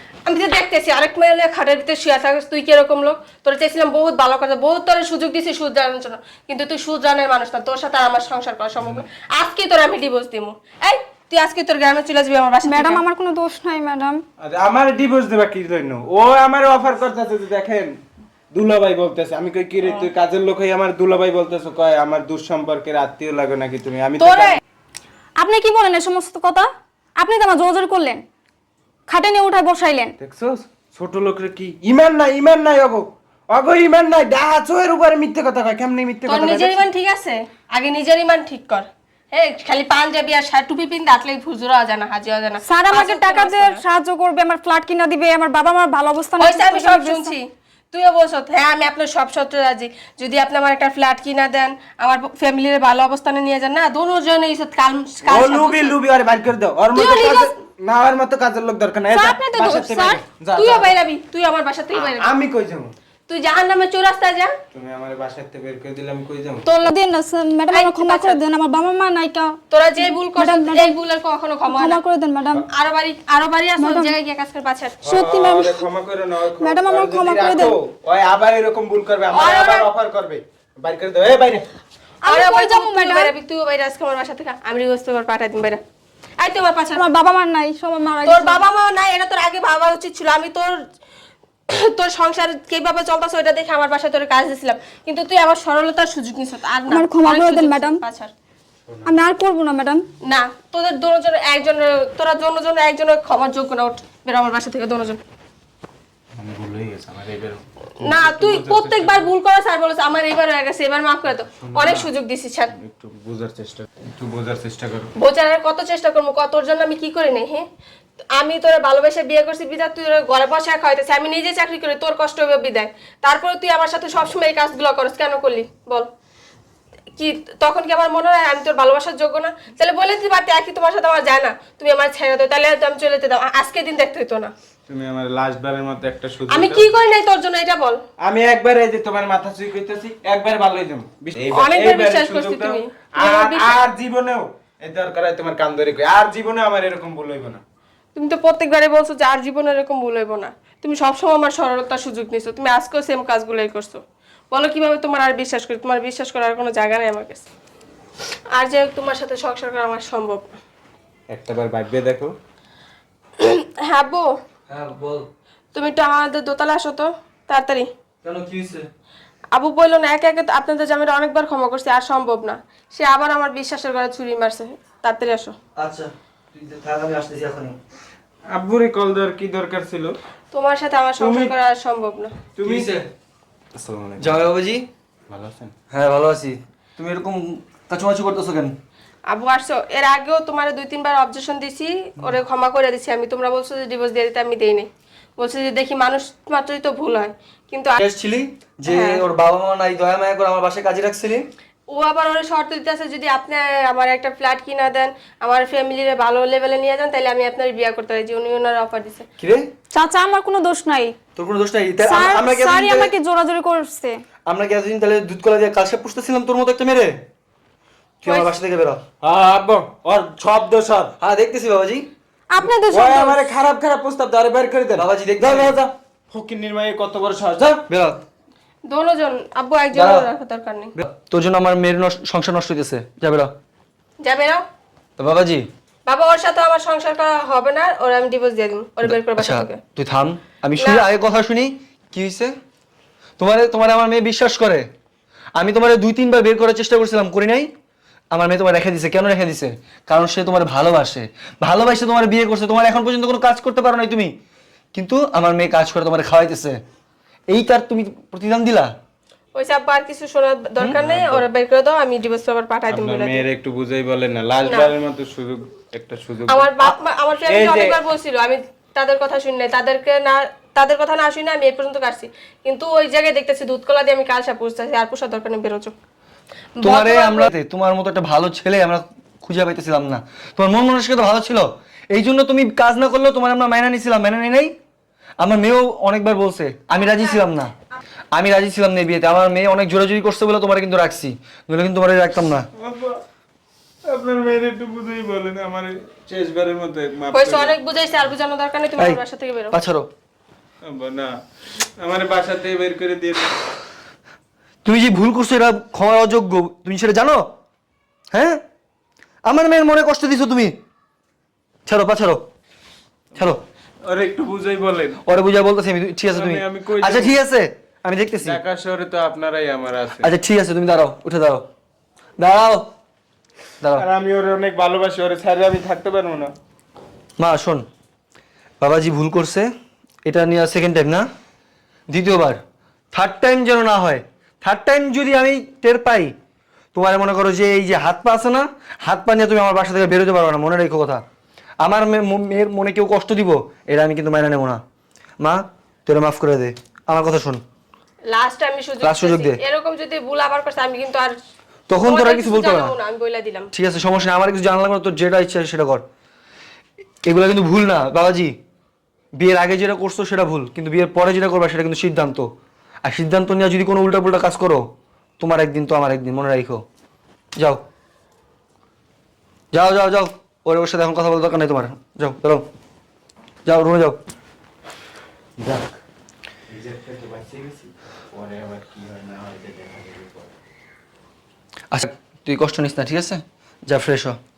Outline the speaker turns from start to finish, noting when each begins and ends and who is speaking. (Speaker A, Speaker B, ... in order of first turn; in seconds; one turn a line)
Speaker A: 0.2-13.0
Speaker B: 8.8-9.0
Speaker C: 12.6-14.2
Speaker B: 14.4-17.9
Speaker B: 18.5-24.6
Speaker A: 24.2-24.6
Speaker C: 25.4-28.2
Speaker C: 29.1-30.1
Speaker B: 30.2-36.8
Speaker A: 36.2-43.8
Speaker C: 42.6-47.3
Speaker A: 46.4-56.0
Speaker B: 55.2-60.9
Speaker A: 56.9-57.5
Speaker C: 59.1-60.2
Speaker A: 59.5-59.8
Speaker A: 60.5-62.3
Speaker B: 61.9-62.9
Speaker A: 63.3-64.5
Speaker B: 64.7-66.7
Speaker C: 66.6-71.0
Speaker A: 67.7-68.4
Speaker A: 69.7-72.0
Speaker C: 71.7-72.7
Speaker A: 72.5-75.0
Speaker C: 73.8-74.1
Speaker B: 75.0-81.7
Speaker C: 75.1-75.8
Speaker C: 76.6-77.8
Speaker A: 79.3-79.9
Speaker C: 82.2-83.3
Speaker A: 82.2-85.8
Speaker A: 86.4-87.0
Speaker C: 86.9-88.7
Speaker A: 88.2-90.8
Speaker A: 91.7-98.3
Speaker C: 96.9-98.0
Speaker B: 98.9-99.1
Speaker C: 99.0-100.0
Speaker A: 100.2-105.2
Speaker B: 106.3-109.3
Speaker A: 108.0-112.7
Speaker B: 111.6-112.1
Speaker B: 112.8-115.1
Speaker A: 115.2-117.6
Speaker A: 118.3-126.1
Speaker A: 127.2-134.5
Speaker B: 134.9-136.9
Speaker A: 136.5-138.0
Speaker B: 138.2-147.6
Speaker A: 141.5-143.8
Speaker A: 148.1-154.0
Speaker A: 154.5-157.5
Speaker A: 158.5-160.5
Speaker B: 161.3-162.3
Speaker A: 163.4-164.3
Speaker D: 164.7-165.3
Speaker A: 165.7-167.9
Speaker D: 168.2-168.9
Speaker A: 169.5-175.6
Speaker D: 175.8-177.8
Speaker B: 178.5-180.2
Speaker A: 180.5-182.4
Speaker B: 181.2-181.5
Speaker B: 182.6-182.9
Speaker D: 182.6-183.1
Speaker B: 183.7-184.4
Speaker D: 184.2-184.9
Speaker B: 185.3-185.7
Speaker D: 185.9-188.7
Speaker A: 189.3-198.0
Speaker D: 198.0-201.4
Speaker A: 198.8-199.2
Speaker A: 201.9-209.2
Speaker D: 209.4-209.7
Speaker C: 209.9-211.2
Speaker D: 211.3-213.1
Speaker C: 212.0-214.2
Speaker D: 214.5-217.2
Speaker D: 218.2-219.0
Speaker A: 218.2-218.6
Speaker B: 219.2-221.1
Speaker D: 221.2-222.1
Speaker C: 222.5-223.5
Speaker B: 222.6-227.8
Speaker D: 224.9-225.8
Speaker D: 227.9-228.2
Speaker A: 228.8-230.9
Speaker D: 229.9-230.3
Speaker D: 231.0-233.5
Speaker A: 234.2-234.6
Speaker D: 235.2-235.7
Speaker A: 236.1-239.8
Speaker D: 239.0-242.5
Speaker A: 240.8-241.1
Speaker D: 243.4-244.8
Speaker D: 245.6-247.7
Speaker D: 248.3-254.3
Speaker D: 254.9-256.8
Speaker D: 257.5-258.9
Speaker A: 259.5-263.4
Speaker B: 261.0-261.4
Speaker B: 262.9-266.9
Speaker A: 264.6-264.9
Speaker A: 266.5-275.9
Speaker B: 267.4-268.0
Speaker A: 276.8-277.5
Speaker D: 276.8-284.7
Speaker D: 285.4-287.7
Speaker D: 288.3-292.7
Speaker B: 292.8-293.2
Speaker B: 294.1-297.8
Speaker A: 297.3-299.8
Speaker D: 299.7-300.1
Speaker B: 300.8-301.3
Speaker B: 302.0-303.6
Speaker D: 304.8-307.4
Speaker D: 308.3-308.6
Speaker D: 309.4-310.7
Speaker D: 311.9-312.4
Speaker B: 313.3-315.2
Speaker D: 313.4-313.6
Speaker D: 315.2-318.6
Speaker B: 316.3-317.4
Speaker B: 318.4-320.3
Speaker D: 320.2-321.6
Speaker D: 322.4-322.9
Speaker B: 323.9-326.5
Speaker D: 327.4-327.8
Speaker D: 328.8-329.7
Speaker D: 330.2-331.3
Speaker D: 332.1-332.6
Speaker D: 333.1-336.3
Speaker D: 336.9-341.2
Speaker D: 341.8-344.8
Speaker D: 345.4-347.6
Speaker A: 348.3-351.3
Speaker D: 349.0-349.6
Speaker D: 351.9-352.9
Speaker A: 352.0-353.7
Speaker D: 353.7-356.0
Speaker D: 357.2-358.5
Speaker D: 359.4-362.5
Speaker D: 363.0-364.8
Speaker D: 365.4-366.8
Speaker D: 369.7-372.6
Speaker D: 373.6-374.2
Speaker B: 376.7-380.5
Speaker D: 381.9-384.4